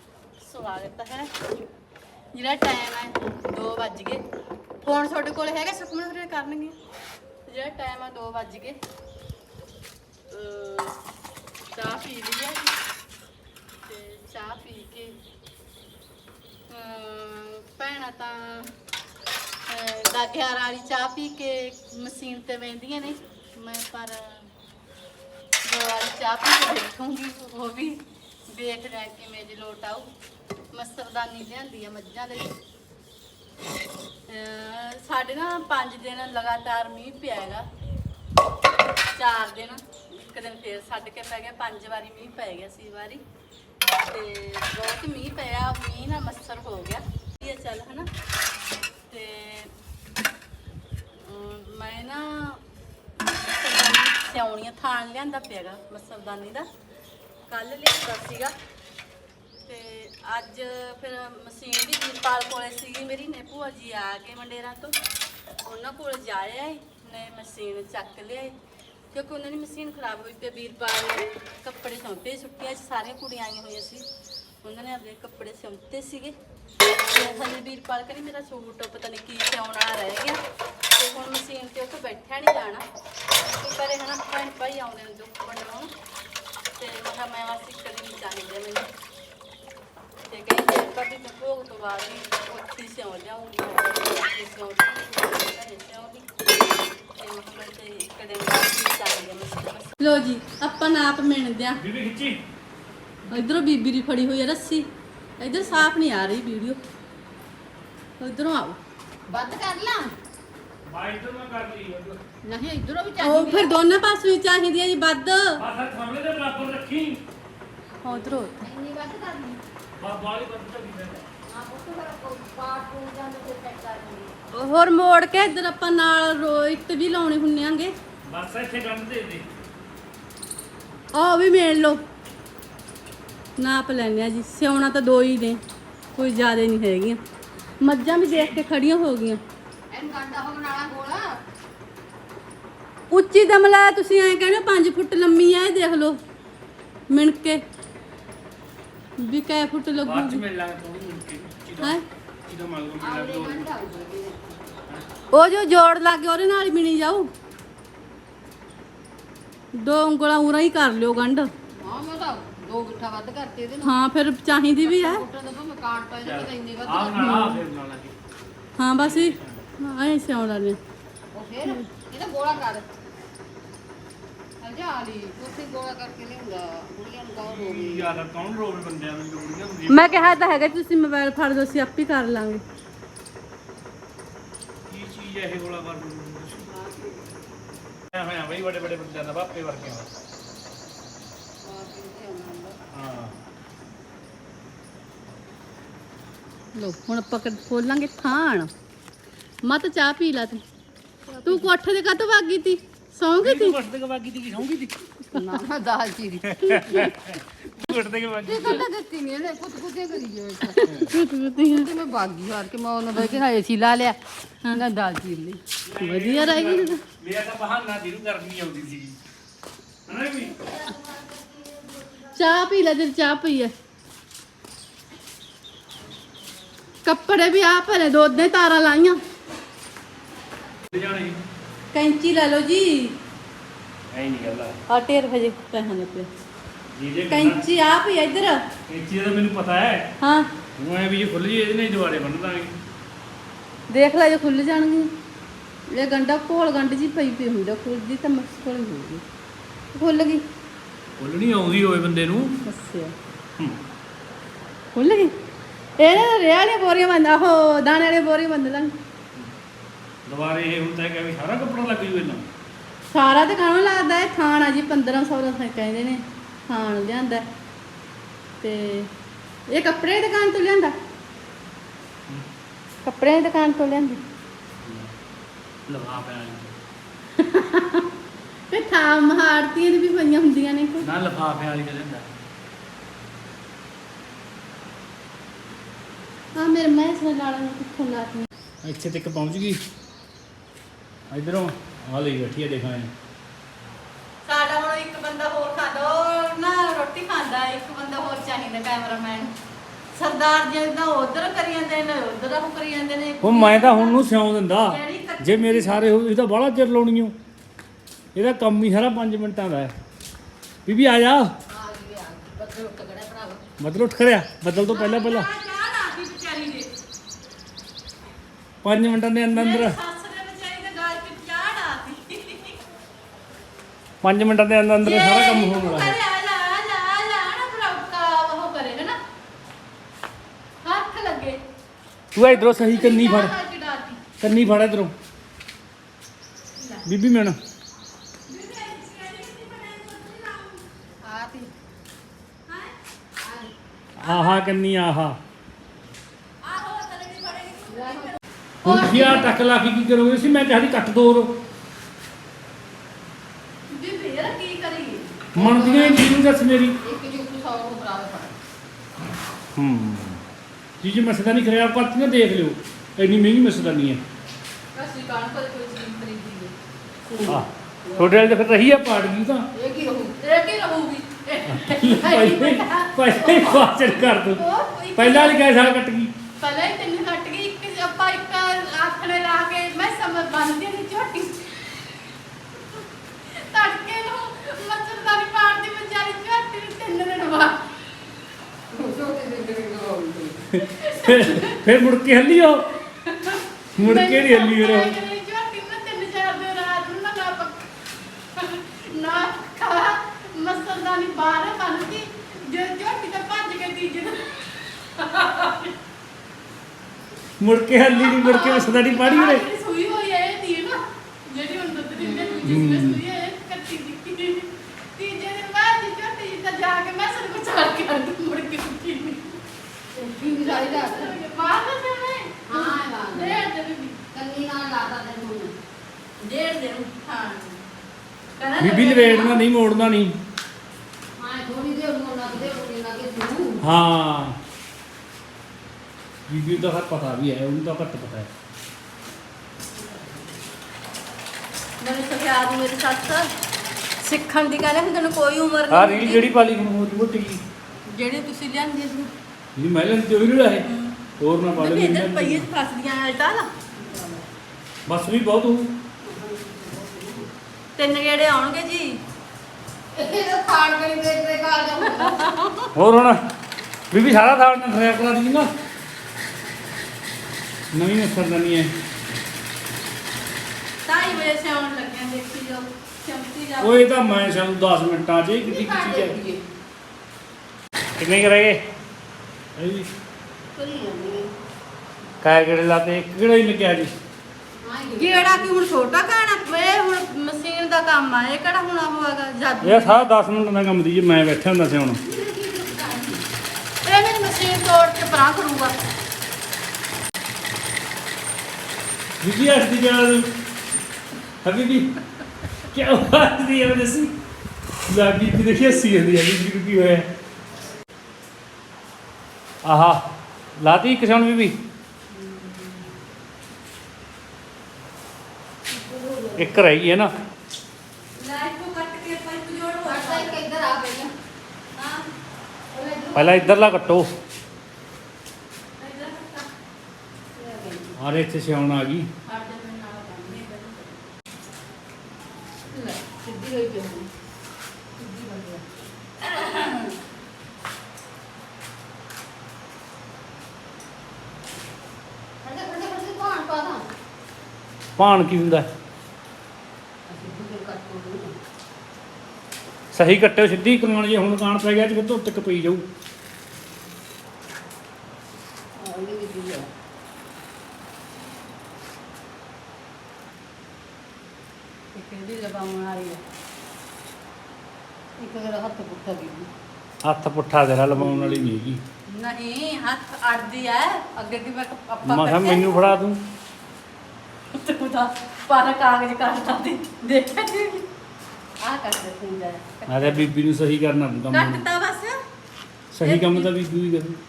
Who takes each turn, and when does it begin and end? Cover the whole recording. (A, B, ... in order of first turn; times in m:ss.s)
0:00.4-0:01.3 A
0:02.3-0:04.2 A
0:04.8-0:06.8 A
0:07.5-0:08.8 A
0:10.3-0:11.0 A
0:11.7-0:12.7 A
0:13.8-0:15.2 A
0:16.7-0:18.7 A
0:19.7-0:24.5 A
0:25.6-0:30.1 A
0:30.7-0:32.5 A
0:34.3-0:37.7 A
0:39.1-0:43.2 A
0:44.1-0:48.1 A
0:49.1-0:49.7 A
0:51.2-0:52.6 A
0:53.5-0:56.7 A
0:57.5-0:58.5 A
0:59.6-1:05.0 A
1:05.6-1:08.5 A
1:09.1-1:14.0 A
1:14.6-1:16.3 A
1:17.0-1:20.4 A
1:20.9-1:22.8 A
1:23.4-1:25.9 A
1:26.8-1:28.9 A
1:30.3-1:36.5 A
1:37.1-1:41.8 A
1:41.8-1:42.4 B
1:43.3-1:44.8 A
1:45.4-1:46.8 A
1:48.2-1:48.8 A
1:49.3-1:50.1 C
1:50.8-1:52.2 B
1:52.4-1:53.8 C
1:53.2-1:55.6 A
1:55.6-1:57.2 B
1:58.0-1:58.6 A
1:58.1-1:59.6 C
2:00.0-2:01.2 B
2:01.5-2:04.3 C
2:04.5-2:07.9 A
2:08.2-2:09.5 B
2:11.1-2:12.0 A
2:13.6-2:15.6 A
2:16.1-2:17.2 A
2:17.8-2:19.4 A
2:18.3-2:18.6 B
2:19.9-2:21.3 C
2:23.1-2:26.2 A
2:27.1-2:27.6 A
2:29.2-2:30.4 A
2:30.0-2:33.7 B
2:33.0-2:34.6 C
2:35.3-2:37.3 A
2:39.7-2:41.5 A
2:41.8-2:43.9 C
2:43.8-2:45.2 A
2:44.8-2:47.6 C
2:46.2-2:48.1 B
2:48.8-2:50.8 A
2:49.0-2:49.6 B
2:51.3-2:52.9 C
2:54.6-2:58.2 C
2:57.4-3:00.4 B
2:59.9-3:02.6 A
3:04.9-3:06.7 B
3:06.6-3:07.3 C
3:08.1-3:10.1 B
3:11.6-3:12.8 C
3:12.9-3:13.4 B
3:16.8-3:18.7 A
3:19.6-3:20.6 A
3:21.3-3:21.7 C
3:21.4-3:23.8 A
3:23.4-3:25.0 B
3:25.3-3:27.0 C
3:26.5-3:28.8 B
3:26.7-3:27.1 A
3:28.4-3:34.2 C
3:30.7-3:31.9 A
3:34.7-3:35.6 C
3:35.8-3:39.2 B
3:36.0-3:37.0 A
3:40.1-3:40.6 B
3:40.6-3:42.3 C
3:42.3-3:43.7 A
3:47.0-3:49.2 A
3:50.9-3:51.4 B
3:51.9-3:53.2 A
3:54.1-3:54.8 B
3:54.9-3:56.3 A
3:56.9-3:57.6 B
3:57.3-3:58.6 A
3:58.9-4:00.0 B
4:00.2-4:00.5 A
4:00.8-4:02.7 B
4:03.9-4:05.1 A
4:05.9-4:09.2 A
4:09.9-4:10.4 A
4:11.2-4:12.6 B
4:12.6-4:13.1 A
4:14.9-4:15.3 A
4:16.0-4:18.9 A
4:20.2-4:22.4 B
4:23.1-4:27.4 A
4:28.6-4:29.1 A
4:29.7-4:30.9 A
4:33.0-4:34.2 A
4:34.8-4:35.1 B
4:35.9-4:36.7 B
4:37.4-4:38.1 A
4:38.7-4:41.1 A
4:41.0-4:42.2 B
4:46.5-4:48.5 A
4:48.8-4:49.8 B
4:51.3-4:53.1 B
4:54.4-4:59.5 A
5:00.1-5:04.2 A
5:03.4-5:07.3 B
5:04.8-5:06.0 A
5:08.3-5:09.9 B
5:10.8-5:11.5 B
5:11.7-5:13.6 C
5:13.8-5:15.5 B
5:14.8-5:16.9 A
5:18.8-5:20.0 B
5:19.5-5:22.8 A
5:24.2-5:26.2 B
5:25.0-5:29.2 A
5:30.8-5:31.6 A
5:32.3-5:33.5 B
5:32.4-5:34.2 A
5:34.4-5:35.1 B
5:37.0-5:37.6 B
5:38.5-5:40.8 A
5:41.2-5:41.7 C
5:42.7-5:42.9 A
5:43.4-5:43.7 C
5:44.2-5:45.4 B
5:44.2-5:44.6 A
5:46.6-5:48.4 A
5:47.9-5:49.5 C
5:48.8-5:51.6 B
5:53.9-5:56.2 A
5:55.6-5:56.1 C
5:55.6-5:57.0 B
5:57.0-5:58.6 C
5:59.8-6:00.4 B
6:01.0-6:04.2 B
6:04.9-6:06.7 A
6:07.3-6:08.4 C
6:07.4-6:09.6 B
6:09.7-6:10.4 C
6:10.4-6:15.6 A
6:11.7-6:14.6 B
6:15.2-6:16.3 B
6:16.6-6:22.1 A
6:23.5-6:27.8 A
6:28.9-6:30.6 C
6:30.7-6:32.9 B
6:30.8-6:31.8 A
6:33.2-6:37.9 A
6:34.0-6:35.2 B
6:38.5-6:45.9 A
6:47.6-6:49.6 B
6:48.0-6:59.6 A
6:52.2-6:52.8 C
6:52.6-6:53.2 B
7:00.1-7:01.4 C
7:00.5-7:04.2 A
7:02.7-7:03.6 C
7:04.3-7:05.7 C
7:06.4-7:07.8 A
7:08.6-7:09.6 A
7:08.8-7:10.3 B
7:11.4-7:13.8 C
7:13.8-7:14.6 B
7:16.5-7:18.5 B
7:22.0-7:23.5 A
7:24.2-7:26.5 A
7:25.9-7:27.6 B
7:28.1-7:29.3 A
7:29.8-7:30.9 B
7:30.8-7:31.2 A
7:31.4-7:32.7 B
7:31.8-7:33.7 A
7:33.9-7:34.4 C
7:35.1-7:35.9 B
7:36.2-7:37.5 C
7:38.0-7:39.2 A
7:40.1-7:42.4 C
7:42.1-7:42.9 A
7:42.9-7:43.4 B
7:44.1-7:45.7 B
7:47.9-7:48.9 B
7:51.0-7:54.3 A
7:53.8-7:56.4 B
7:55.6-7:56.6 C
7:58.2-7:58.8 B
7:59.8-8:00.1 B
8:00.7-8:01.5 C
8:02.4-8:04.1 B
8:04.8-8:05.7 C
8:05.2-8:10.2 A
8:09.8-8:12.2 B
8:12.2-8:13.4 C
8:14.0-8:15.9 A
8:19.4-8:20.5 B
8:21.6-8:22.1 B
8:22.9-8:24.3 B
8:25.1-8:27.3 B
8:29.8-8:30.2 B
8:30.8-8:31.7 B
8:32.3-8:33.1 C
8:35.9-8:36.8 C
8:36.6-8:37.3 B
8:38.4-8:40.6 A
8:40.0-8:41.3 C
8:41.9-8:42.2 A
8:42.9-8:43.9 C
8:43.3-8:44.3 B
8:46.0-8:46.7 A
8:47.5-8:48.1 C
8:48.2-8:49.3 B
8:49.4-8:51.3 A
8:52.9-8:54.3 C
8:55.2-8:55.9 C
8:56.4-8:57.2 A
9:02.6-9:04.0 C
9:05.2-9:05.9 B
9:07.3-9:08.5 C
9:10.1-9:13.0 B
9:16.0-9:16.9 C
9:22.1-9:23.4 A
9:25.4-9:26.7 C
9:27.2-9:29.0 B
9:29.3-9:33.1 A
9:32.2-9:33.4 B
9:34.7-9:38.1 A
9:38.8-9:40.5 A
9:40.1-9:41.8 B
9:41.5-9:42.4 A
9:43.1-9:44.4 B
9:43.2-9:43.7 A